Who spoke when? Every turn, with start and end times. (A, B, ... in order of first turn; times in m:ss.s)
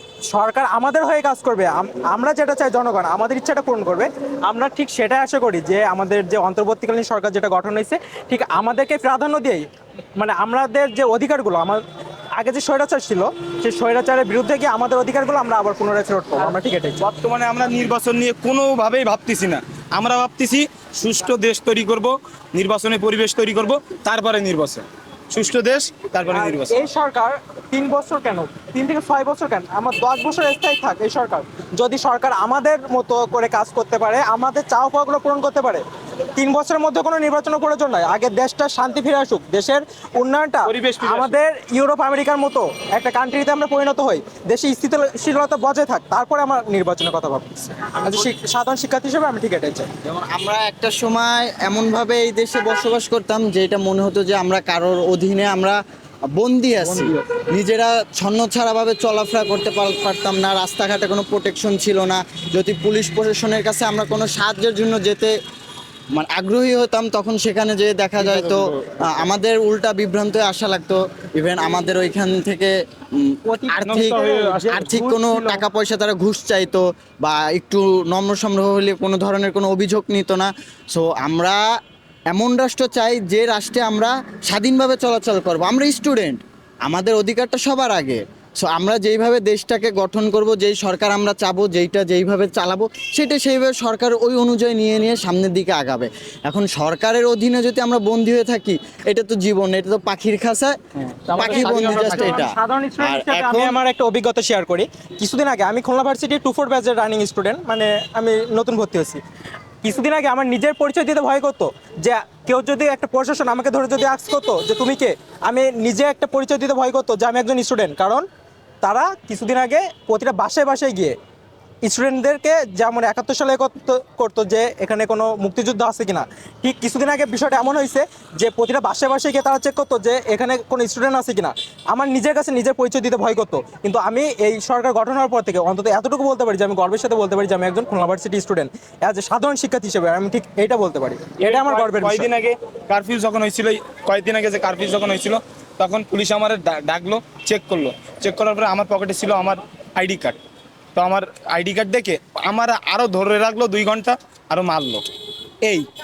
0:00.3-0:09.6 A
0:10.2-0:11.8 A
0:12.4-0:17.0 A
0:17.0-0:26.8 B
0:26.3-0:35.8 A
0:36.4-0:49.9 A
0:40.6-0:41.3 B
0:50.0-0:55.8 C
0:56.4-1:05.3 C
0:56.8-0:57.2 A
1:06.1-1:21.6 C
1:08.2-1:09.1 B
1:13.5-1:15.6 A
1:13.7-1:14.8 B
1:22.3-1:40.7 C
1:41.3-1:49.2 A
1:41.3-1:42.4 B
1:41.3-1:43.8 C
1:49.8-1:58.2 A
1:58.8-2:01.2 A
2:01.8-2:22.3 A
2:21.4-2:30.4 B
2:30.9-2:35.0 B